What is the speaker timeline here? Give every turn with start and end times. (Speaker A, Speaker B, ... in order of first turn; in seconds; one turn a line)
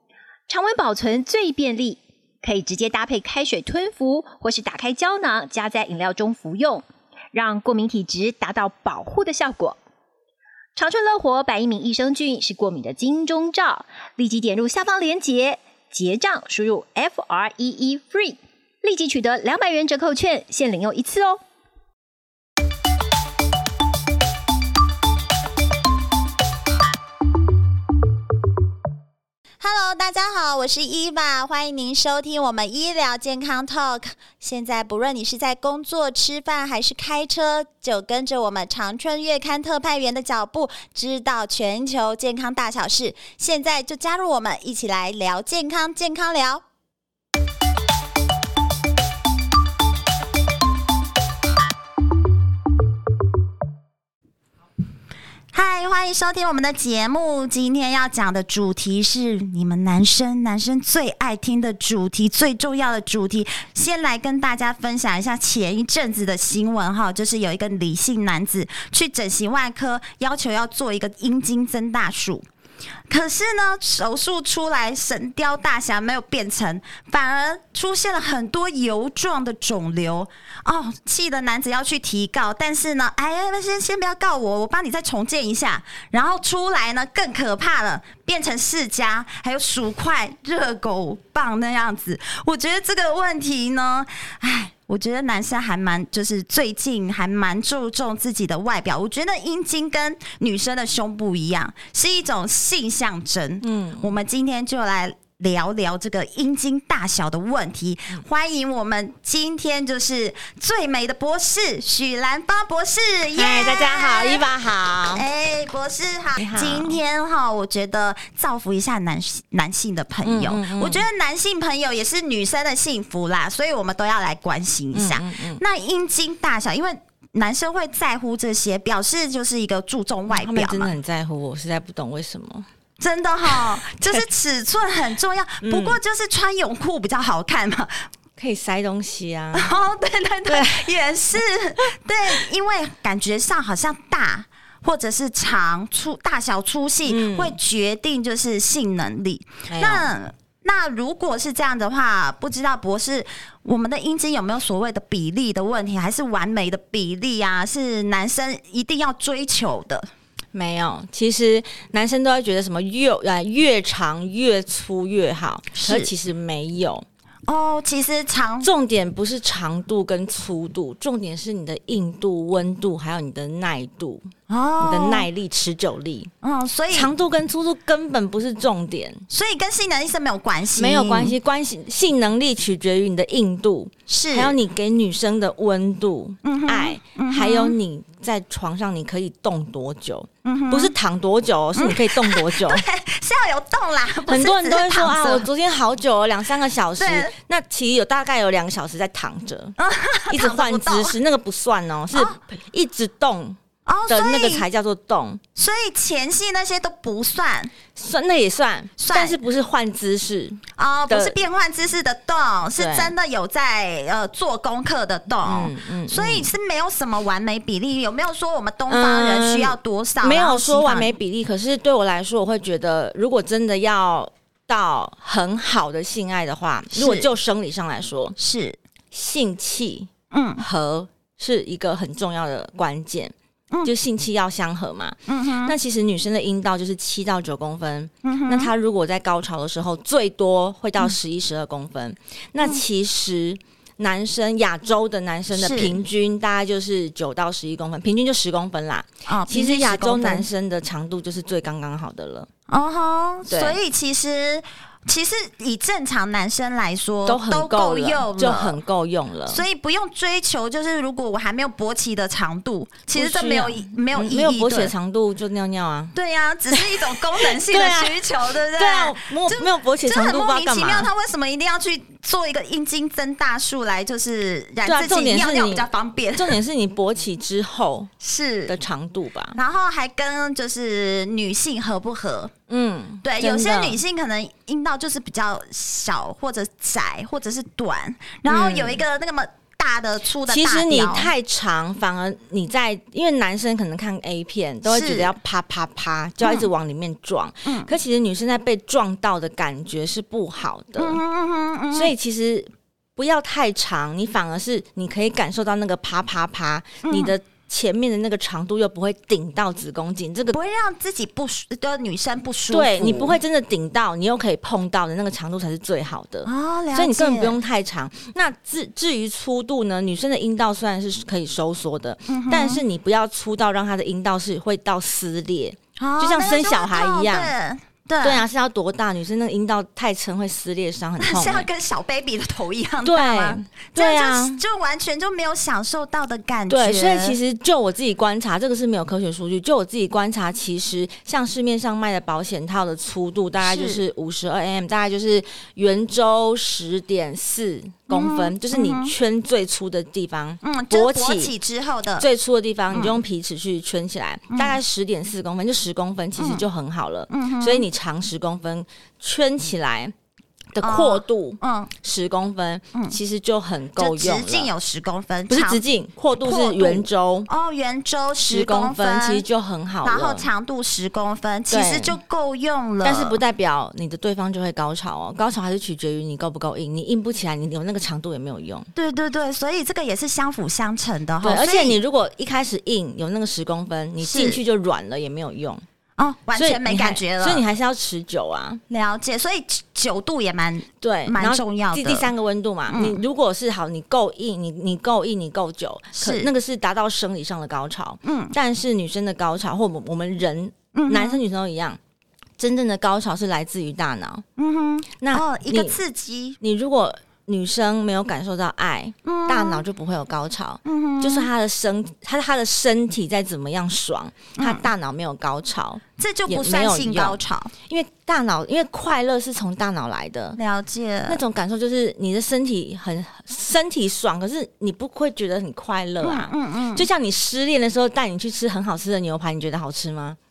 Speaker A: 0.5-9.8
Speaker A: 10.8-21.4
Speaker B: 29.6-46.6
Speaker B: 55.5-72.4
Speaker B: 73.1-114.4
Speaker C: 103.6-104.1
Speaker C: 113.3-115.2
Speaker B: 115.1-130.9
Speaker C: 116.3-117.0
Speaker C: 120.2-121.0
Speaker C: 124.9-125.6
Speaker C: 130.3-132.7
Speaker B: 133.0-138.1
Speaker C: 133.4-134.2
Speaker C: 135.6-136.0
Speaker C: 138.4-139.7
Speaker B: 139.5-160.1
Speaker C: 140.5-140.9
Speaker C: 147.1-147.6
Speaker C: 149.7-150.1
Speaker C: 160.5-167.1
Speaker B: 165.7-166.1
Speaker B: 167.5-168.7
Speaker C: 168.6-174.3
Speaker B: 174.5-175.2
Speaker C: 174.8-176.3
Speaker B: 176.4-177.1
Speaker C: 176.9-179.2
Speaker B: 179.3-181.3
Speaker C: 180.8-192.8
Speaker B: 184.1-184.6
Speaker B: 186.4-187.8
Speaker B: 190.4-190.9
Speaker B: 191.8-195.5
Speaker C: 194.2-199.7
Speaker B: 197.0-197.3
Speaker B: 199.8-201.2
Speaker C: 200.3-205.4
Speaker B: 202.1-202.4
Speaker B: 203.8-204.6
Speaker B: 205.6-207.7
Speaker C: 207.9-211.3
Speaker B: 209.0-209.4
Speaker B: 210.8-221.1
Speaker C: 212.8-213.1
Speaker C: 215.4-216.5
Speaker C: 218.9-228.3
Speaker B: 226.9-227.3
Speaker B: 228.4-228.8
Speaker C: 229.1-233.3
Speaker B: 230.3-230.6
Speaker C: 233.8-252.5
Speaker B: 235.3-235.8
Speaker B: 238.2-238.7
Speaker B: 245.5-246.0
Speaker B: 249.2-250.5
Speaker B: 252.7-258.8
Speaker C: 253.5-253.8
Speaker C: 257.2-259.6
Speaker B: 259.5-264.9
Speaker C: 263.1-266.1
Speaker B: 266.1-276.6
Speaker C: 266.7-268.2
Speaker C: 268.7-271.1
Speaker C: 274.8-278.1
Speaker B: 278.2-278.7
Speaker C: 278.7-279.6
Speaker B: 279.5-282.5
Speaker C: 282.7-284.0
Speaker B: 283.2-291.3
Speaker C: 288.5-289.0
Speaker C: 290.4-301.2
Speaker B: 294.9-295.3
Speaker B: 296.4-296.7
Speaker B: 297.6-297.9
Speaker B: 301.0-302.1
Speaker C: 301.9-310.6
Speaker B: 307.0-307.3
Speaker B: 310.5-313.4
Speaker C: 312.7-327.5
Speaker B: 316.4-317.6
Speaker B: 322.3-322.8
Speaker B: 326.0-328.4
Speaker C: 328.2-331.7
Speaker B: 331.2-337.4
Speaker C: 333.0-334.6
Speaker C: 336.7-351.5
Speaker B: 343.6-344.0
Speaker B: 348.1-349.1
Speaker B: 350.6-352.2
Speaker C: 352.2-360.1
Speaker B: 354.5-354.8
Speaker B: 356.4-356.6
Speaker B: 357.3-357.9
Speaker C: 360.7-364.7
Speaker B: 360.8-361.9
Speaker B: 364.0-365.8
Speaker C: 365.5-367.5
Speaker B: 366.4-369.4
Speaker C: 368.4-370.5
Speaker B: 370.0-373.4
Speaker C: 371.7-372.2
Speaker C: 373.0-378.9
Speaker B: 378.9-382.0
Speaker C: 381.4-385.8
Speaker B: 384.2-384.6
Speaker B: 386.2-387.6
Speaker C: 386.5-388.8
Speaker B: 388.9-392.3
Speaker C: 391.0-402.0
Speaker B: 392.9-393.2
Speaker B: 396.1-396.5
Speaker B: 398.2-398.5
Speaker B: 400.9-401.4
Speaker C: 402.6-404.4
Speaker B: 404.6-406.6
Speaker C: 405.2-406.0
Speaker C: 406.6-420.6
Speaker B: 409.2-409.8
Speaker B: 410.8-411.5
Speaker B: 414.6-414.9
Speaker B: 416.2-417.7
Speaker B: 420.6-421.4
Speaker C: 421.3-430.4
Speaker B: 426.2-427.1